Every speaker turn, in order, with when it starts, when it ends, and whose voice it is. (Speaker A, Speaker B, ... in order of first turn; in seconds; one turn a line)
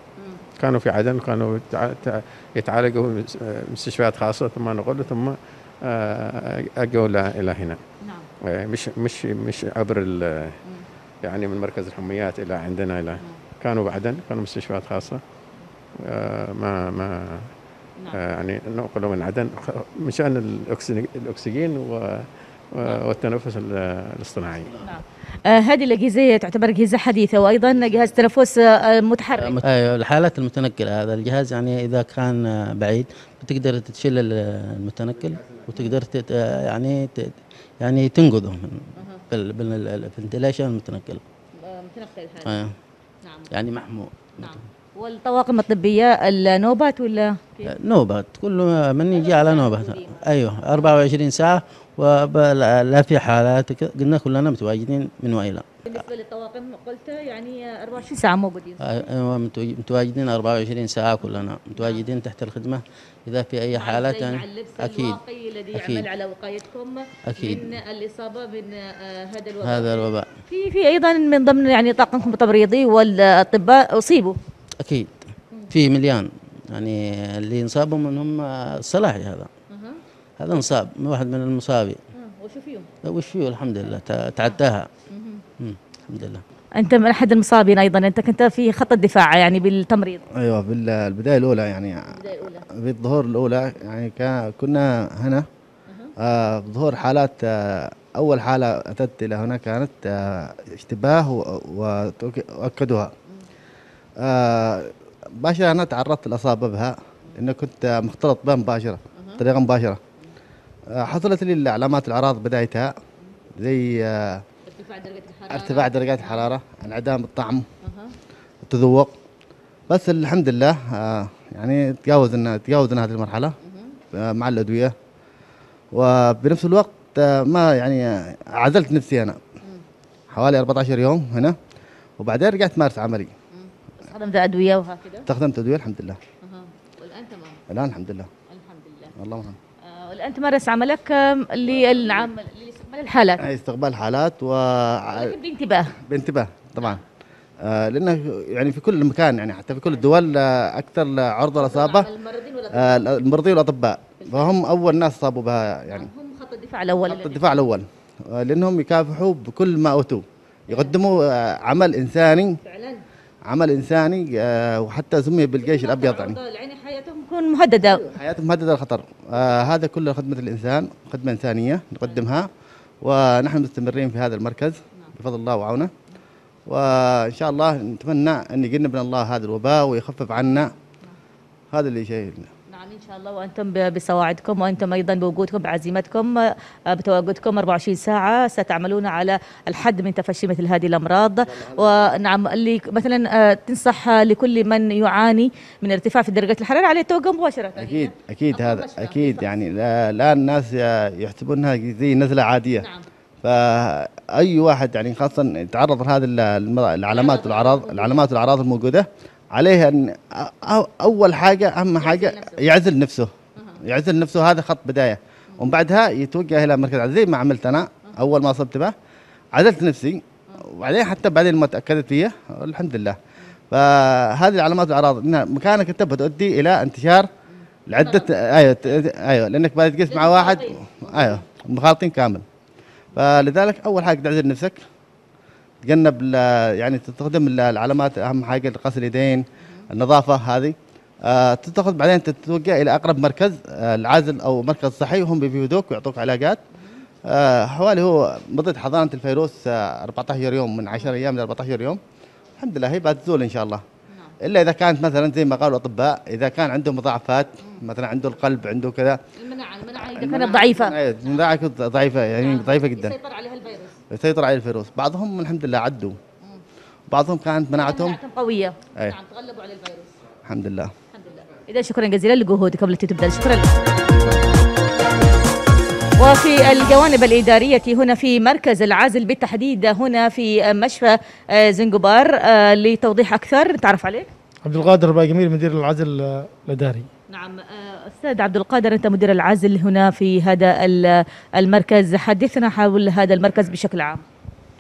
Speaker A: 0.6-7.8
Speaker B: 8.0-8.3
Speaker A: 8.4-10.6
Speaker A: 11.2-15.2
Speaker A: 16.0-17.5
Speaker A: 18.1-24.7
Speaker B: 24.8-29.6
Speaker C: 29.4-41.2
Speaker B: 39.0-39.2
Speaker B: 41.6-42.6
Speaker C: 42.4-42.7
Speaker C: 43.5-44.6
Speaker B: 44.4-47.7
Speaker C: 47.7-55.6
Speaker B: 49.1-50.8
Speaker B: 55.9-59.1
Speaker C: 58.8-65.2
Speaker B: 61.8-62.0
Speaker B: 63.7-74.4
Speaker C: 65.7-66.1
Speaker C: 67.3-67.7
Speaker C: 69.6-70.3
Speaker C: 74.8-79.5
Speaker B: 79.7-80.0
Speaker C: 80.4-82.0
Speaker B: 82.1-82.9
Speaker C: 83.0-84.9
Speaker B: 85.1-85.4
Speaker C: 85.6-86.4
Speaker B: 86.8-90.2
Speaker D: 90.4-95.5
Speaker B: 92.1-92.7
Speaker D: 96.2-103.1
Speaker D: 104.2-110.0
Speaker D: 111.0-112.9
Speaker D: 113.6-114.4
Speaker B: 114.7-116.5
Speaker D: 115.5-117.7
Speaker B: 117.8-118.1
Speaker D: 118.7-119.1
Speaker D: 119.9-123.5
Speaker B: 123.6-124.0
Speaker D: 124.1-124.9
Speaker D: 125.9-129.4
Speaker D: 130.3-131.6
Speaker D: 132.2-133.3
Speaker B: 133.5-135.3
Speaker D: 135.3-136.2
Speaker B: 136.4-137.6
Speaker D: 137.7-138.3
Speaker B: 138.5-139.1
Speaker D: 139.2-139.6
Speaker B: 139.8-143.4
Speaker D: 143.4-145.3
Speaker B: 145.1-145.9
Speaker D: 146.0-147.0
Speaker D: 147.7-152.1
Speaker B: 151.5-153.1
Speaker D: 152.8-156.1
Speaker B: 154.2-154.6
Speaker B: 155.9-157.5
Speaker D: 157.1-162.6
Speaker B: 160.7-160.9
Speaker B: 162.6-163.0
Speaker D: 163.5-166.4
Speaker B: 165.6-168.1
Speaker D: 167.9-172.5
Speaker D: 173.0-175.9
Speaker D: 176.7-180.7
Speaker D: 181.7-182.5
Speaker B: 182.7-199.5
Speaker D: 197.8-202.9
Speaker B: 202.8-203.1
Speaker D: 203.4-213.3
Speaker B: 207.1-208.2
Speaker B: 212.0-212.7
Speaker D: 213.8-218.9
Speaker D: 219.6-223.2
Speaker D: 223.7-227.3
Speaker D: 227.9-232.4
Speaker B: 228.0-228.3
Speaker B: 230.1-231.4
Speaker D: 233.1-234.8
Speaker D: 235.8-246.6
Speaker D: 247.3-252.0
Speaker D: 252.6-253.8
Speaker D: 254.4-259.2
Speaker B: 259.4-261.4
Speaker D: 260.0-263.2
Speaker B: 262.4-264.0
Speaker D: 264.1-266.2
Speaker D: 267.1-268.2
Speaker B: 267.7-270.2
Speaker D: 270.5-270.9
Speaker B: 271.1-274.0
Speaker B: 276.2-284.3
Speaker E: 284.6-287.1
Speaker B: 287.3-294.2